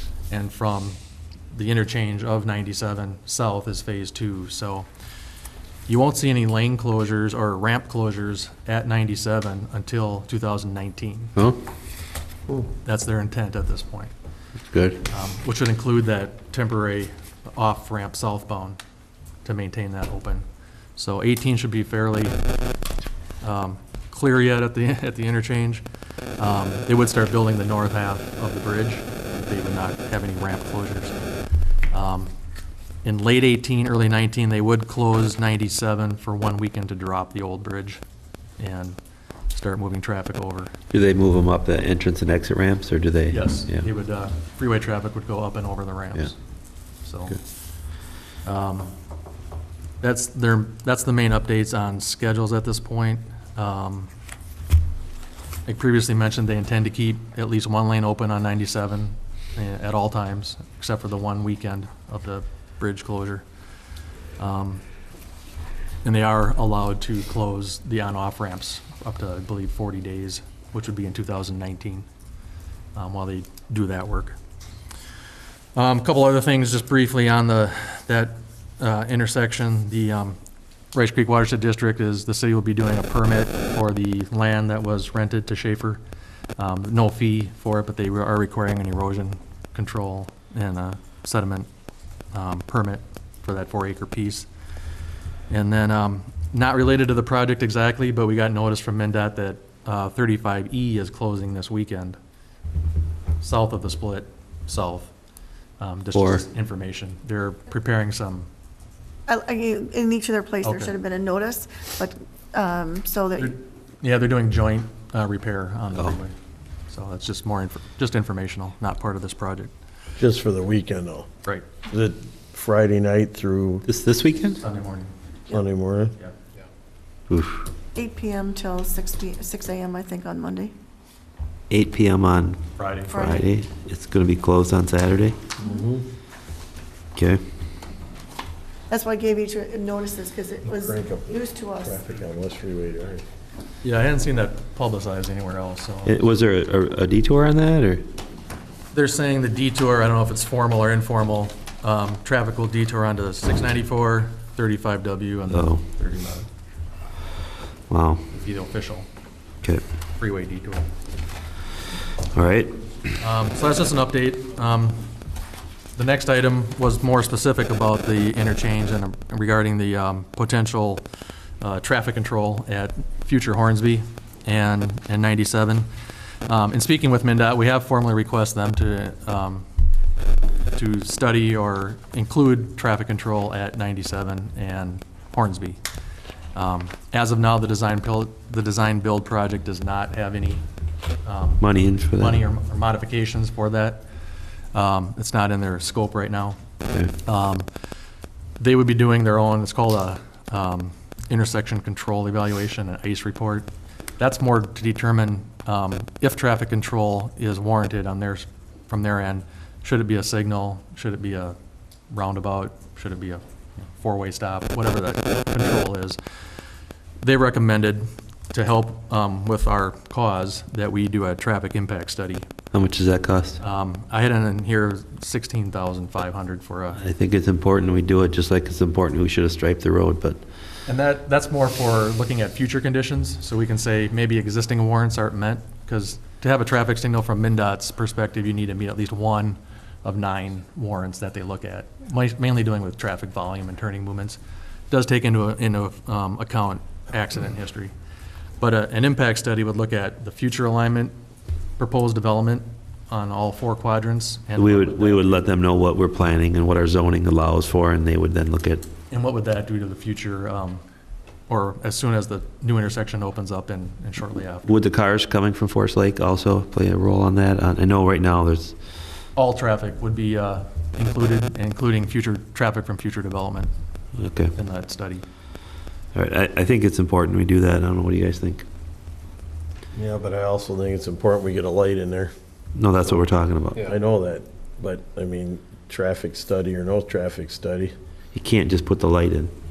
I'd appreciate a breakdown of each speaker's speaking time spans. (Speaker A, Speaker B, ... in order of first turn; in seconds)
Speaker A: 0.3-1.0, 1.5-4.9, 5.9-11.3, 12.8-14.1, 15.1-18.8, 19.4-20.4, 21.0-22.4, 23.4-25.9, 26.4-31.2, 31.9-32.3, 33.0-38.0, 38.6-39.0, 39.5-40.7, 43.3-46.4, 47.0-47.4, 48.4-49.0, 50.0-54.1, 55.7-63.5, 64.4-64.8, 66.0-72.1, 73.0-74.4, 75.8-80.4, 80.9-86.0, 86.6-91.7, 92.3-94.5, 95.5-102.2, 103.4-105.1, 105.8-108.5, 110.6-110.9, 113.4-116.3, 116.9-119.7, 124.6-125.1, 132.8-133.2, 143.8-146.2, 148.9-156.5, 158.3-159.1, 160.2-160.9, 163.2-165.1, 166.0-171.1, 171.6-175.9, 176.5-179.7, 180.8-185.8, 186.5-190.7, 191.2-194.0, 194.7-196.6, 197.2-197.7, 198.6-211.6, 212.1-216.2, 217.2-222.5, 223.6-227.0, 230.9-244.4, 244.9-247.9, 248.6-251.1, 251.8-255.4, 259.1-260.8, 261.5-264.8, 269.4-273.7, 274.6-275.2
Speaker B: 14.7-15.0, 40.9-43.9, 106.1-106.4, 123.9-124.6, 127.3-127.7, 131.7-135.4, 137.2-137.4, 146.1-148.1, 155.5-155.8, 157.9-158.2, 162.3-162.8, 191.6-192.4, 222.7-223.6, 227.0-230.4, 254.6-258.9, 264.7-268.8, 274.2-274.5, 276.1-278.6, 282.8-283.9, 288.3-289.5
Speaker C: 109.3-113.5, 128.0-130.7, 133.1-133.4, 138.9-142.0
Speaker D: 120.2-121.3, 121.9-123.8, 125.5-126.2, 135.6-136.1, 140.7-143.2, 279.9-282.3, 283.8-287.9